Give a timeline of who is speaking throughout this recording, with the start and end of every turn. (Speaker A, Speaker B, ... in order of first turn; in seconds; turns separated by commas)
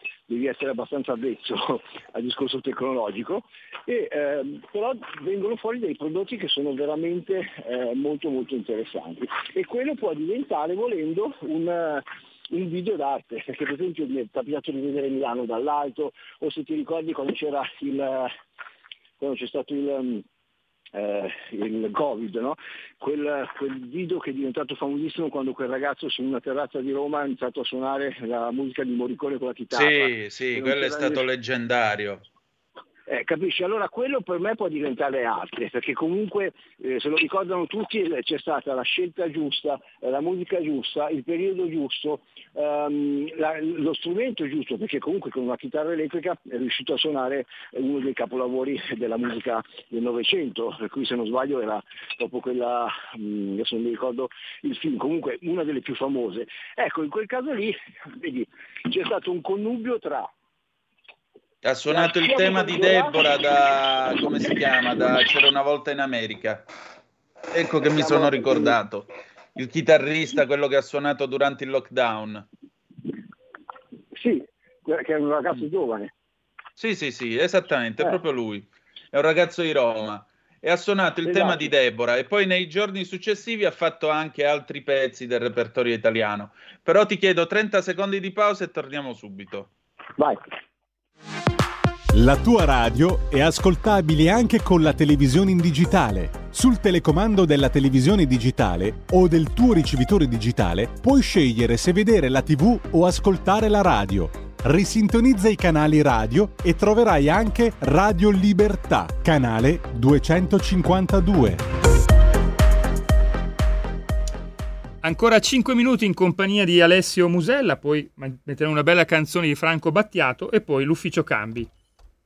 Speaker A: 0.3-18.3, Speaker A: 19.2-20.2, Speaker A: 20.9-31.2, Speaker B: 29.7-32.2, Speaker A: 33.1-60.3, Speaker B: 61.6-66.6, Speaker A: 61.9-63.3, Speaker B: 67.5-72.5, Speaker A: 67.8-68.8, Speaker A: 74.1-76.1, Speaker B: 76.8-89.7, Speaker A: 81.2-81.7, Speaker C: 92.1-111.6, Speaker D: 115.0-121.7